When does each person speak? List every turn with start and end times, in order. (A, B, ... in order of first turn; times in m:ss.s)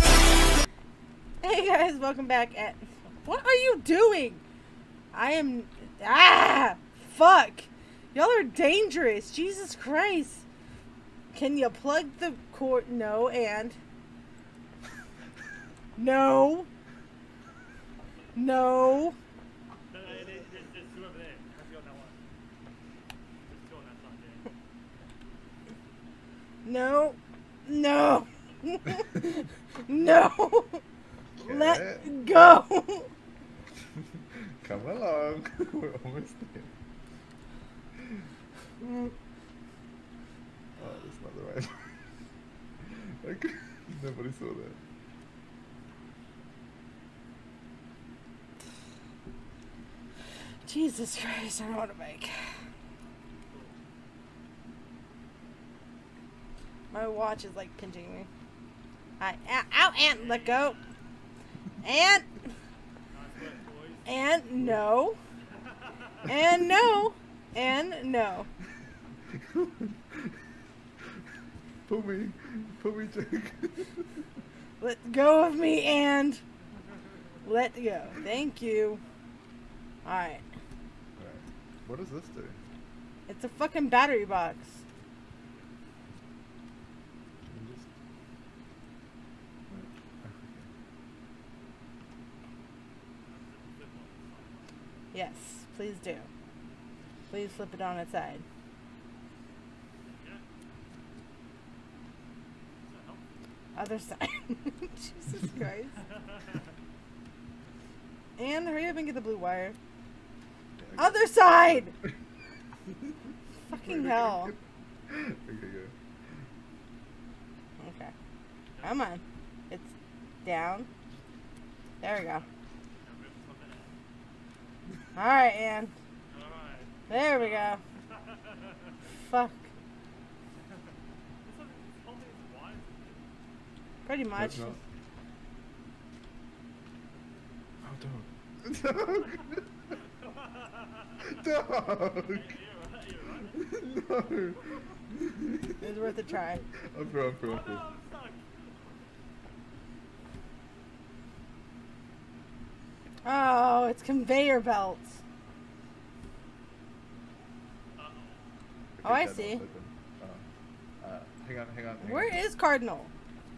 0:01.4-0:04.4 A
0:05.1-0:10.4 A
0:11.3-0:13.8 A
0:16.0-0:16.7 A
0:18.4-0:19.2 A
0:19.9-0:22.2 B
0:23.4-0:24.5 B
0:26.6-0:30.8 A
0:31.4-0:32.6 C
0:31.4-0:33.1 A
0:34.6-0:36.7 C
0:40.8-0:42.0 C
0:42.8-0:44.8 C
0:50.6-0:52.5 A
0:53.5-0:53.7 B
0:56.9-0:58.3 A
0:59.2-1:00.8 A
1:00.1-1:01.0 B
1:01.8-1:02.5 A
1:03.1-1:04.1 B
1:04.1-1:05.2 A
1:05.5-1:06.2 B
1:06.3-1:08.5 A
1:09.4-1:10.3 C
1:11.9-1:14.2 C
1:14.8-1:16.4 A
1:17.4-1:19.0 A
1:20.0-1:20.4 A
1:21.2-1:22.6 C
1:23.3-1:24.8 A
1:25.5-1:25.7 B
1:27.5-1:27.9 C
1:29.7-1:30.7 C
1:33.3-1:34.9 B
1:35.1-1:36.3 A
1:37.3-1:38.4 A
1:40.0-1:40.4 B
1:42.8-1:43.3 B
1:43.8-1:46.0 A
1:46.0-1:46.7 B
1:48.4-1:49.8 A
1:50.8-1:52.1 C
1:51.0-1:51.9 A
1:53.7-1:54.5 A
1:53.7-1:55.9 C
1:57.8-1:58.1 A
1:58.7-1:59.1 B
1:58.8-1:59.9 A
2:00.4-2:00.9 A
2:02.0-2:02.4 A
2:02.2-2:03.9 B
2:05.2-2:05.9 A
2:06.3-2:09.1 B
2:07.1-2:07.8 A
2:09.2-2:09.7 A
2:10.6-2:13.3 B
2:14.1-2:14.8 A
2:14.3-2:14.8 C
2:17.8-2:19.7 C
2:19.9-2:21.3 B
2:21.2-2:22.5 C
2:22.3-2:23.7 B
2:23.5-2:26.2 C
2:24.7-2:25.0 B
2:25.8-2:26.6 A
2:26.8-2:27.8 C
2:27.4-2:29.2 B
2:33.2-2:35.2 A
2:38.0-2:38.5 B
2:39.0-2:40.4 C
2:39.0-2:39.6 A
2:41.0-2:42.4 C
2:42.0-2:43.1 A